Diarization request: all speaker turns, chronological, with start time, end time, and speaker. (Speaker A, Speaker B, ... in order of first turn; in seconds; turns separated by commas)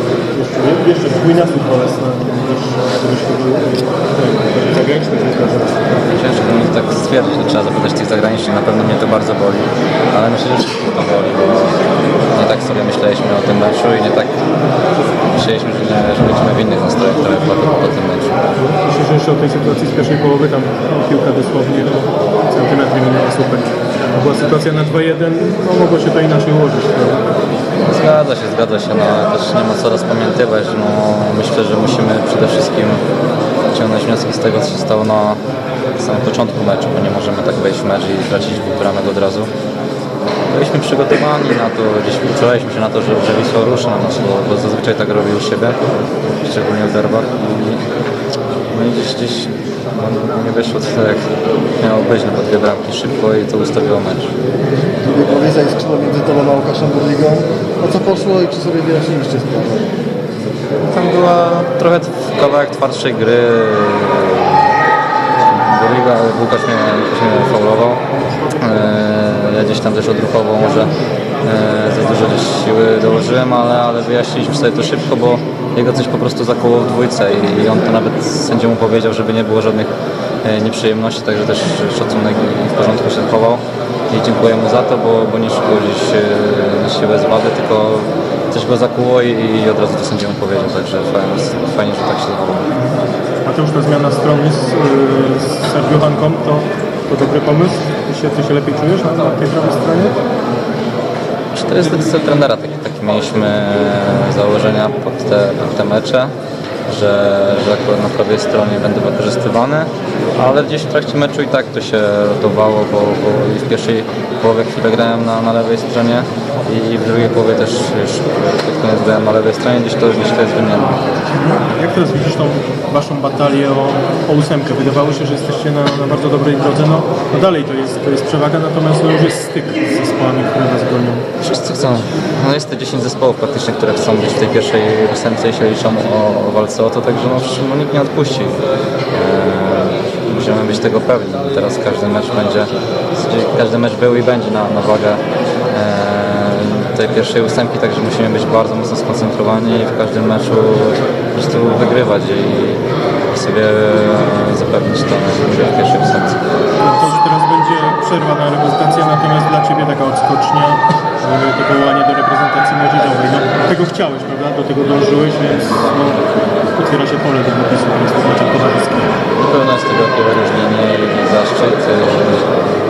Speaker A: 0.3-5.8, Speaker B: 6.1-11.8, Speaker B: 12.3-14.4, Speaker B: 15.3-18.3, Speaker A: 18.6-27.3, Speaker B: 27.8-33.0, Speaker B: 33.7-35.4, Speaker B: 36.0-39.5, Speaker B: 40.5-45.8, Speaker B: 46.4-47.8, Speaker B: 48.7-51.2, Speaker B: 51.8-54.3, Speaker C: 54.8-59.9, Speaker B: 60.8-64.7, Speaker B: 65.4-68.0, Speaker B: 68.6-79.9, Speaker B: 80.4-92.7, Speaker A: 93.5-100.2, Speaker B: 101.5-106.3, Speaker B: 106.9-121.1, Speaker A: 121.4-131.3, Speaker B: 131.4-138.6, Speaker B: 139.1-145.2, Speaker B: 145.7-156.4, Speaker A: 156.8-169.2, Speaker B: 169.4-172.6